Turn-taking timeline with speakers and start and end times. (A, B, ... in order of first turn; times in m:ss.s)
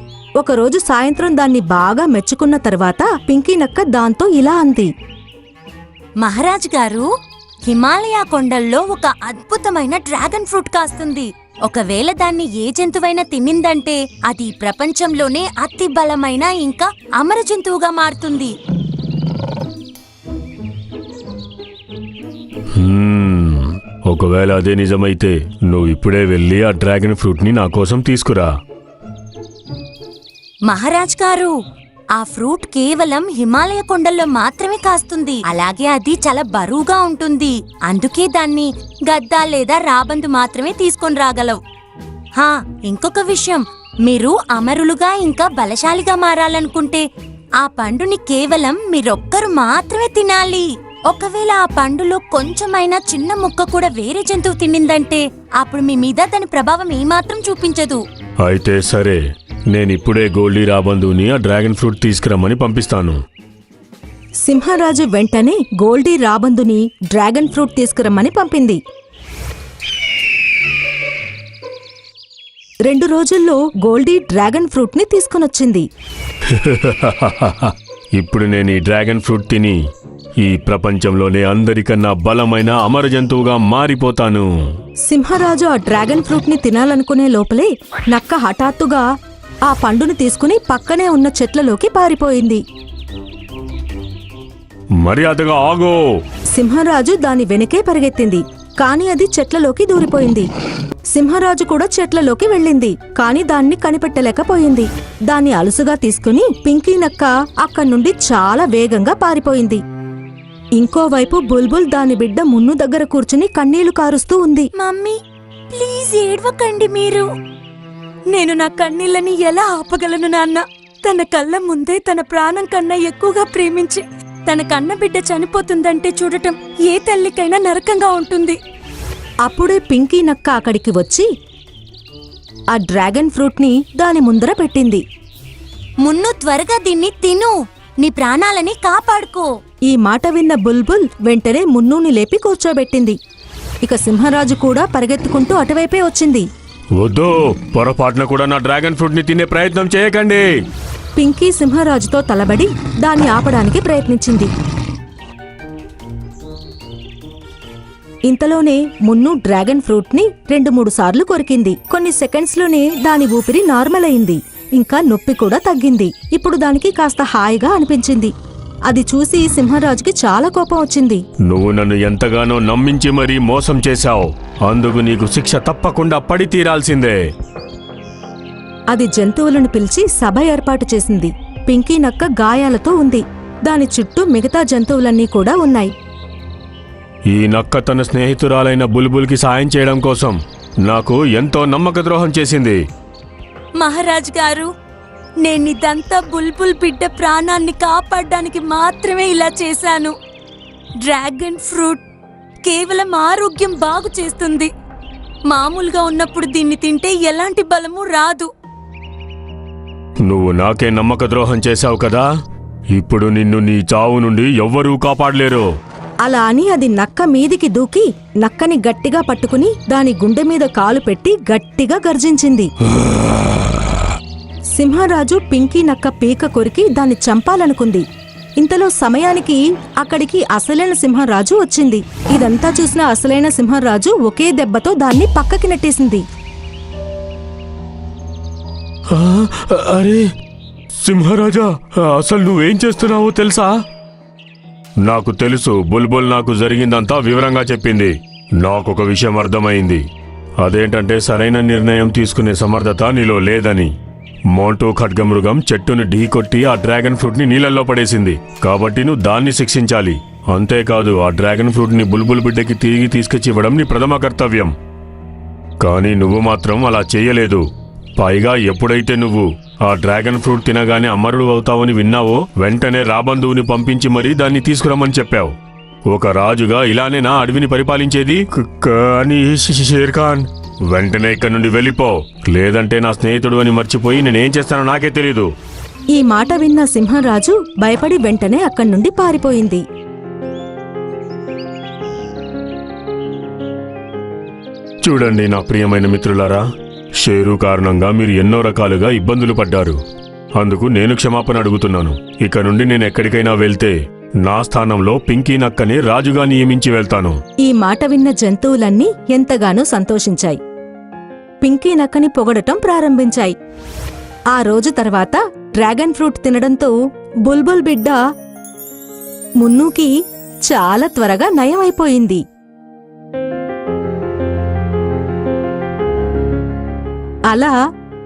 0:00.4-0:04.9 A
0:06.2-0:07.1 B
0:07.7-0:18.5 B
0:22.8-0:28.5 C
0:30.7-0:31.5 B
0:32.2-0:41.6 B
0:42.4-0:47.0 B
0:47.6-0:58.0 B
0:58.4-1:03.2 C
1:04.5-1:08.8 A
1:12.9-1:15.9 A
1:16.5-1:19.8 C
1:20.4-1:24.5 C
1:25.1-1:29.0 A
1:29.7-1:32.6 A
1:35.0-1:36.0 C
1:36.5-1:40.5 A
1:41.1-1:49.8 A
1:50.8-1:54.7 A
1:54.8-1:55.2 B
1:55.7-1:57.2 B
1:58.3-2:08.6 B
2:09.4-2:11.3 A
2:12.8-2:15.0 A
2:16.0-2:19.5 B
2:19.9-2:23.2 A
2:23.8-2:26.4 A
2:27.0-2:30.5 C
2:31.2-2:34.5 A
2:38.3-2:48.3 A
2:48.9-2:51.2 A
2:51.5-2:57.2 C
2:58.9-3:05.9 A
3:07.3-3:12.8 C
3:13.8-3:14.7 B
3:15.4-3:20.2 B
3:21.0-3:22.0 B
3:22.6-3:24.7 B
3:25.5-3:28.5 B
3:30.2-3:32.3 C
3:32.9-3:35.7 C
3:36.2-3:42.7 A
3:44.8-3:48.0 A
3:48.6-3:56.2 A
3:59.1-4:00.3 C
4:01.0-4:03.8 C
4:05.0-4:10.0 C
4:10.6-4:13.9 C
4:14.5-4:24.8 C
4:25.8-4:27.6 C
4:28.2-4:35.5 C
4:36.1-4:45.5 C
4:46.2-4:49.8 A
4:55.0-4:56.6 C
4:57.2-5:00.0 C
5:00.6-5:07.4 C
5:07.6-5:10.6 A
5:11.6-5:13.5 A
5:14.5-5:16.9 A
5:17.5-5:18.2 A
5:19.6-5:20.1 A
5:20.7-5:22.4 A
5:27.5-5:27.8 A